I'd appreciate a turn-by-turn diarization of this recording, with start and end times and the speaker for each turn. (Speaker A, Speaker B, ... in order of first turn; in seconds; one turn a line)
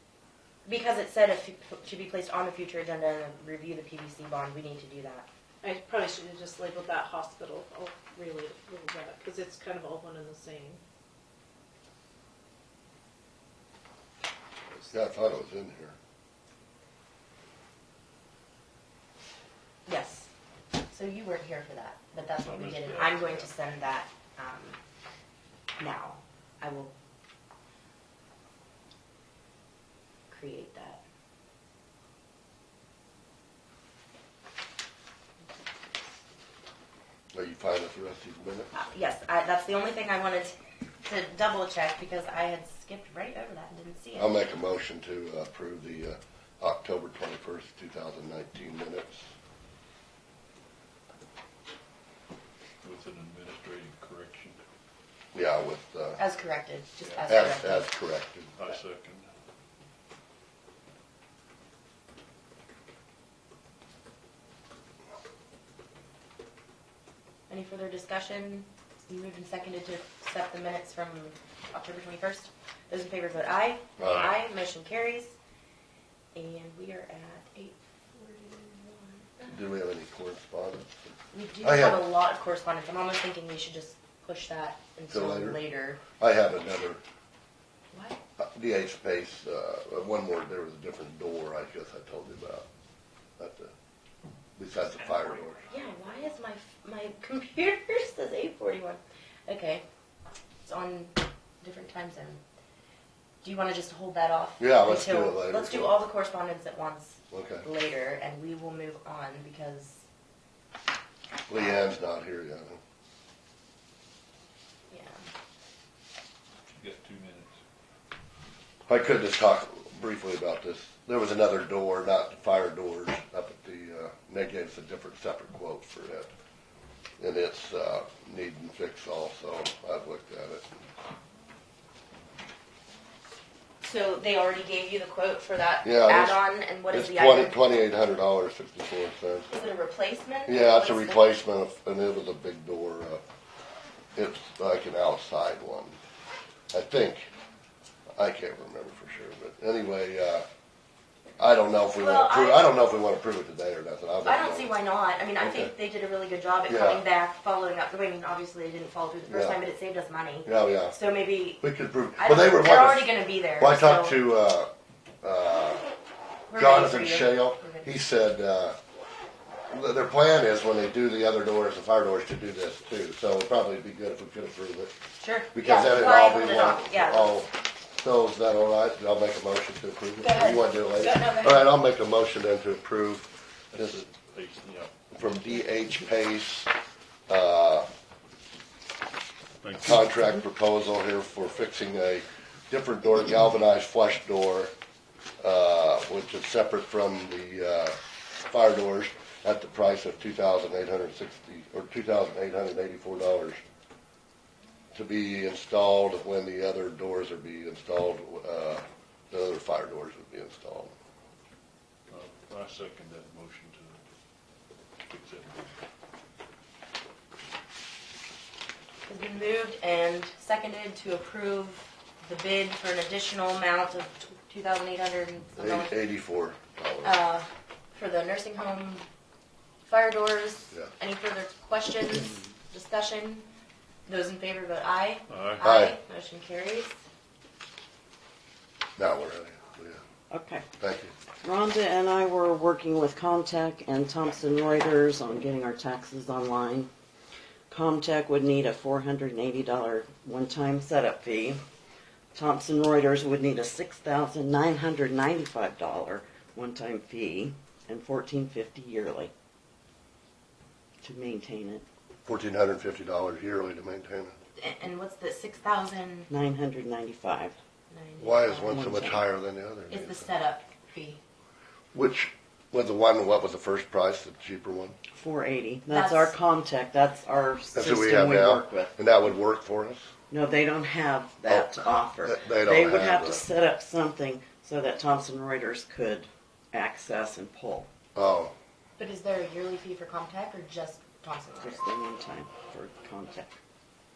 Speaker A: 0.7-5.3
Speaker B: 5.6-10.8
Speaker C: 14.9-16.0
Speaker A: 19.9-20.3
Speaker A: 20.9-24.8
Speaker D: 22.4-23.5
Speaker A: 25.8-26.9
Speaker A: 30.3-31.0
Speaker C: 37.3-38.7
Speaker A: 38.7-44.4
Speaker C: 44.2-49.3
Speaker D: 52.8-54.6
Speaker C: 55.3-56.2
Speaker A: 56.2-57.9
Speaker D: 57.0-57.3
Speaker C: 57.3-58.5
Speaker D: 58.6-59.3
Speaker A: 67.5-75.3
Speaker C: 74.0-74.3
Speaker A: 76.3-79.6
Speaker C: 79.5-81.0
Speaker A: 81.3-86.0
Speaker C: 81.6-82.1
Speaker C: 85.1-85.6
Speaker C: 86.2-87.0
Speaker A: 87.9-88.2
Speaker C: 88.4-92.7
Speaker C: 93.4-93.7
Speaker C: 94.6-95.7
Speaker A: 95.7-99.8
Speaker A: 100.6-102.4
Speaker A: 103.4-110.0
Speaker C: 104.6-106.0
Speaker C: 107.3-107.7
Speaker C: 111.5-112.8
Speaker A: 114.9-115.2
Speaker D: 116.7-117.6
Speaker C: 118.9-126.3
Speaker C: 127.2-130.7
Speaker A: 133.8-137.6
Speaker C: 135.8-139.5
Speaker A: 139.5-141.3
Speaker C: 140.5-143.2
Speaker C: 144.2-145.9
Speaker C: 146.7-147.3
Speaker C: 148.2-150.5
Speaker C: 151.4-154.7
Speaker A: 152.0-152.8
Speaker A: 154.2-161.6
Speaker C: 155.4-155.7
Speaker C: 156.7-157.0
Speaker C: 159.3-159.6
Speaker C: 160.4-161.0
Speaker C: 161.6-164.7
Speaker A: 162.2-164.2
Speaker C: 165.2-165.8
Speaker A: 166.5-167.9
Speaker C: 166.6-168.8
Speaker C: 169.7-174.9
Speaker A: 175.2-177.4
Speaker C: 175.5-184.0
Speaker A: 180.2-181.7
Speaker D: 183.7-185.4
Speaker C: 185.1-186.7
Speaker C: 187.3-187.9
Speaker D: 189.6-190.1
Speaker C: 189.8-194.7
Speaker C: 195.4-198.0
Speaker C: 198.5-203.6
Speaker C: 204.9-210.9
Speaker D: 212.1-214.0
Speaker D: 215.1-215.7
Speaker A: 219.1-226.0
Speaker C: 225.6-227.2
Speaker A: 227.0-229.1
Speaker A: 229.8-233.5
Speaker A: 234.1-237.0
Speaker D: 235.3-235.6
Speaker C: 235.6-236.0
Speaker C: 239.0-240.0
Speaker E: 240.3-240.7
Speaker C: 240.8-241.1
Speaker E: 241.4-246.9
Speaker E: 247.7-251.6
Speaker E: 252.3-259.3
Speaker E: 261.0-261.9
Speaker C: 262.2-264.4
Speaker A: 264.6-266.3
Speaker E: 266.3-267.6
Speaker A: 267.9-268.9
Speaker C: 268.2-270.3
Speaker E: 268.7-269.2
Speaker A: 269.9-271.2
Speaker C: 271.9-275.0
Speaker E: 275.1-279.0
Speaker A: 275.9-276.3
Speaker C: 277.7-280.1
Speaker E: 280.3-287.9
Speaker C: 281.5-283.4
Speaker C: 288.1-288.5
Speaker A: 289.0-291.8
Speaker E: 291.6-293.6